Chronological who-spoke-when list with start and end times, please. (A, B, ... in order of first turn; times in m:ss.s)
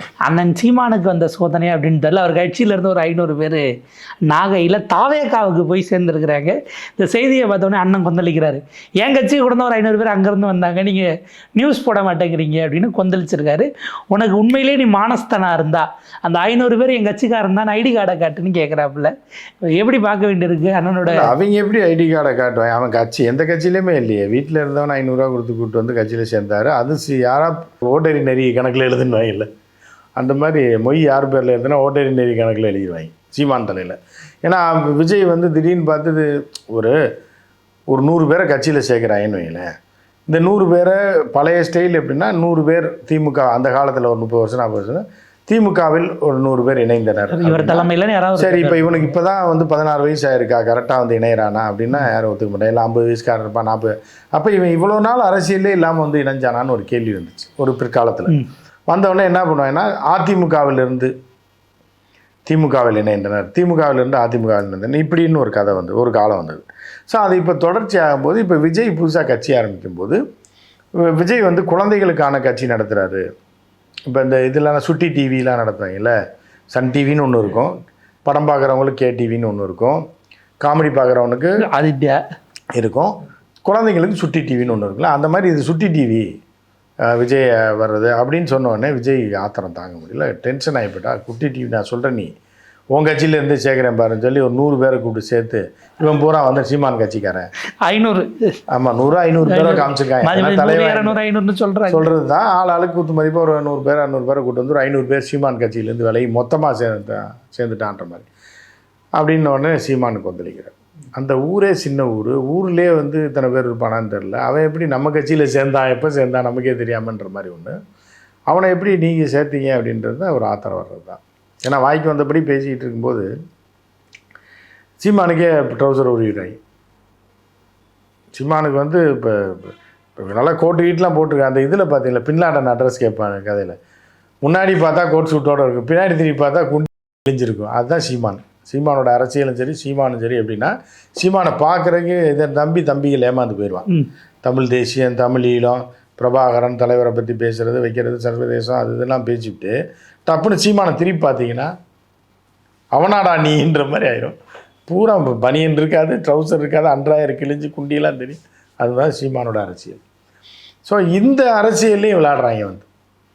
0:00.2-0:03.6 A
0:04.3-0:21.3 A
0:21.0-0:29.5 B
0:30.2-0:37.0 B
0:37.9-0:39.7 B
0:40.3-0:58.4 B
0:47.3-0:49.1 A
0:58.9-1:01.1 B
1:02.4-1:10.2 B
1:11.0-1:13.2 B
1:14.1-1:16.1 B
1:16.7-1:20.0 B
1:20.6-1:21.6 B
1:21.6-1:22.2 A
1:22.8-1:26.3 B
1:27.0-1:32.3 B
1:32.9-1:37.5 B
1:37.8-1:38.5 A
1:38.7-1:41.2 B
1:39.4-1:42.1 A
1:41.9-1:48.3 B
1:49.2-1:57.8 B
1:58.5-2:03.3 B
2:05.0-2:06.6 B
2:08.3-2:13.8 B
2:14.4-2:23.9 B
2:24.4-2:29.7 B
2:30.2-2:31.7 B
2:32.9-2:34.3 B
2:34.9-2:40.0 B
2:40.8-2:42.9 B